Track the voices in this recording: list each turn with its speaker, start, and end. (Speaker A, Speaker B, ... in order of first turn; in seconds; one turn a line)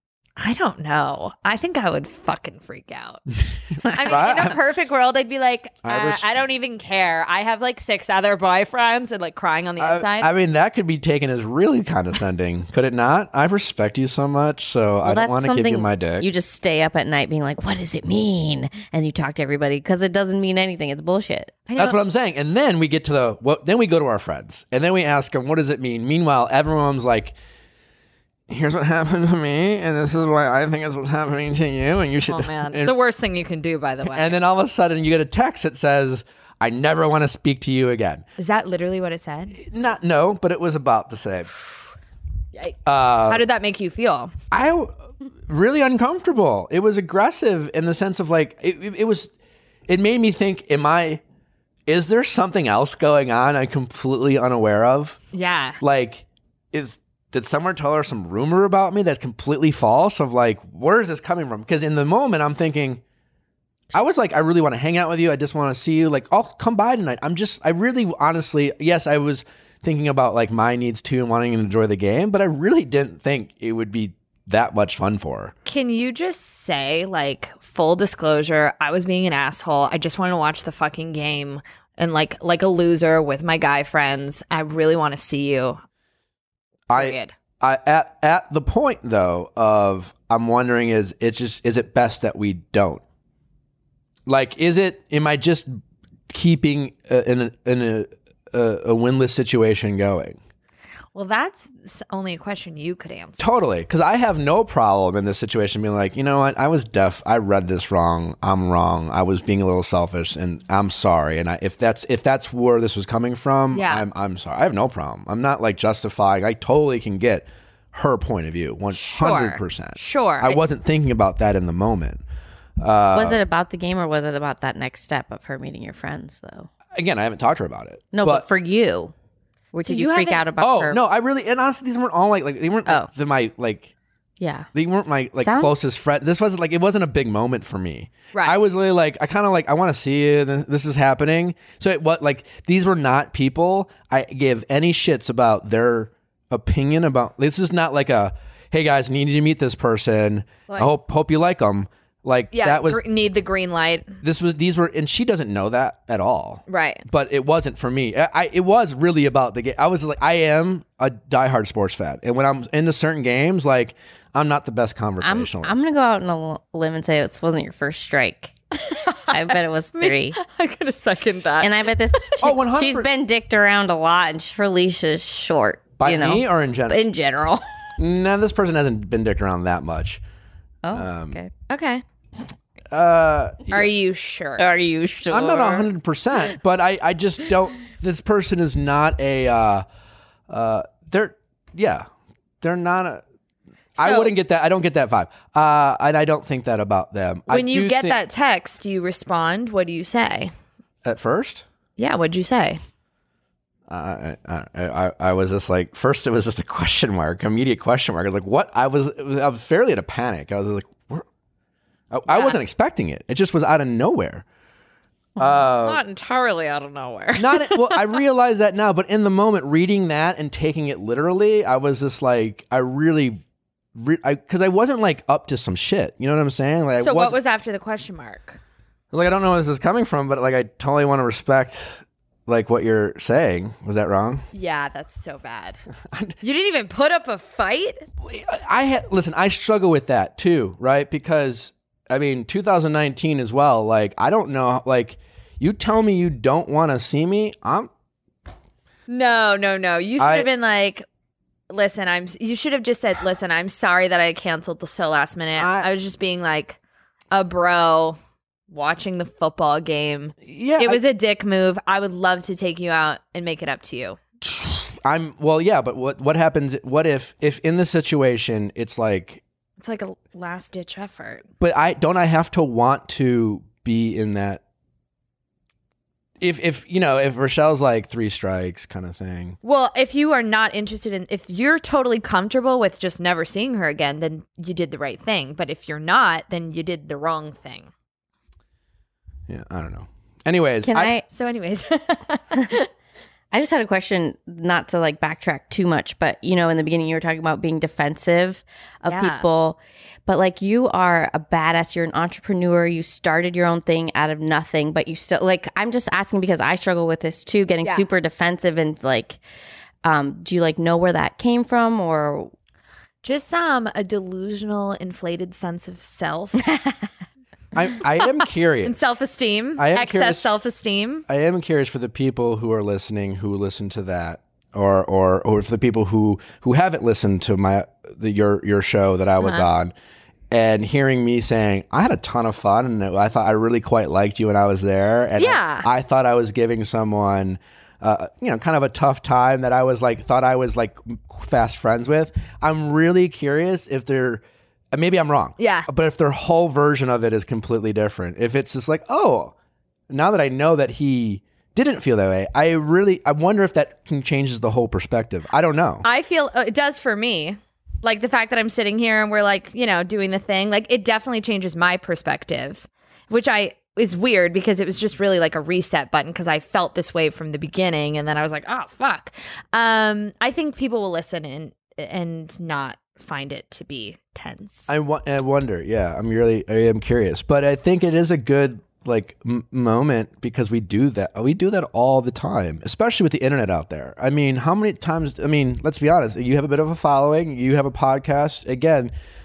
Speaker A: 0.4-3.2
Speaker B: 3.4-4.6
Speaker A: 3.9-10.3
Speaker B: 5.8-6.2
Speaker B: 9.8-16.3
Speaker C: 15.0-21.6
Speaker A: 21.7-22.0
Speaker B: 21.8-27.4
Speaker B: 28.5-32.9
Speaker A: 32.3-34.4
Speaker B: 34.1-38.2
Speaker A: 38.4-39.8
Speaker B: 39.5-41.5
Speaker A: 42.5-44.3
Speaker B: 42.9-43.5
Speaker B: 44.5-44.9
Speaker B: 45.5-49.3
Speaker B: 49.9-51.2
Speaker B: 51.9-55.2
Speaker A: 55.3-55.8
Speaker B: 55.8-63.0
Speaker B: 63.9-75.5
Speaker A: 75.7-85.8
Speaker B: 86.9-93.0
Speaker A: 86.9-87.3
Speaker B: 94.2-95.7
Speaker B: 96.3-100.4
Speaker A: 101.1-103.5
Speaker B: 103.4-122.2
Speaker A: 113.7-114.0
Speaker A: 118.9-120.6
Speaker B: 122.8-123.4
Speaker C: 123.1-126.7
Speaker B: 126.9-128.4
Speaker C: 128.1-129.1
Speaker C: 129.7-131.0
Speaker A: 129.8-130.4
Speaker B: 130.6-133.9
Speaker C: 134.4-134.7
Speaker B: 134.7-153.0
Speaker C: 135.4-135.7
Speaker A: 152.5-154.2
Speaker B: 154.2-165.8
Speaker A: 156.7-157.0
Speaker C: 165.2-170.4
Speaker A: 169.9-172.4
Speaker C: 171.6-177.6
Speaker B: 172.4-173.1
Speaker B: 176.0-177.0
Speaker B: 178.0-180.2
Speaker C: 180.8-181.5
Speaker B: 180.9-181.4
Speaker A: 181.7-182.0
Speaker B: 182.9-183.9
Speaker A: 183.7-184.6
Speaker C: 184.6-185.9
Speaker B: 185.3-189.8
Speaker B: 190.5-192.1
Speaker B: 192.6-193.2
Speaker A: 193.9-194.3
Speaker B: 194.0-198.2
Speaker A: 197.5-200.5
Speaker B: 201.0-201.6
Speaker A: 202.0-202.8
Speaker B: 203.9-211.2
Speaker B: 212.1-214.4
Speaker A: 212.3-212.6
Speaker B: 215.4-216.0
Speaker A: 215.4-218.1
Speaker B: 217.4-223.4
Speaker B: 223.9-227.4
Speaker A: 227.0-228.6
Speaker B: 229.1-234.4
Speaker A: 234.5-235.8
Speaker B: 236.1-236.3
Speaker A: 236.4-238.1
Speaker B: 238.2-247.9
Speaker A: 249.1-251.0
Speaker B: 250.2-250.5
Speaker A: 251.7-256.8
Speaker B: 255.6-255.9
Speaker A: 257.3-258.2
Speaker A: 258.7-264.2
Speaker B: 260.4-261.0
Speaker B: 264.4-269.4
Speaker A: 269.8-271.4
Speaker B: 271.6-274.6
Speaker B: 276.4-279.6
Speaker A: 279.6-287.9
Speaker B: 289.5-291.1
Speaker C: 290.8-291.2
Speaker A: 291.3-292.9
Speaker C: 293.5-309.4
Speaker A: 299.1-299.4
Speaker C: 310.0-312.5
Speaker A: 313.2-316.7
Speaker C: 316.7-316.9
Speaker B: 317.7-319.0
Speaker A: 318.2-321.2
Speaker B: 319.8-320.5
Speaker B: 321.3-329.9
Speaker A: 329.4-329.7
Speaker B: 330.5-349.5
Speaker A: 335.4-335.9
Speaker A: 345.6-345.9
Speaker B: 350.1-356.0
Speaker A: 356.0-374.9
Speaker B: 374.9-389.1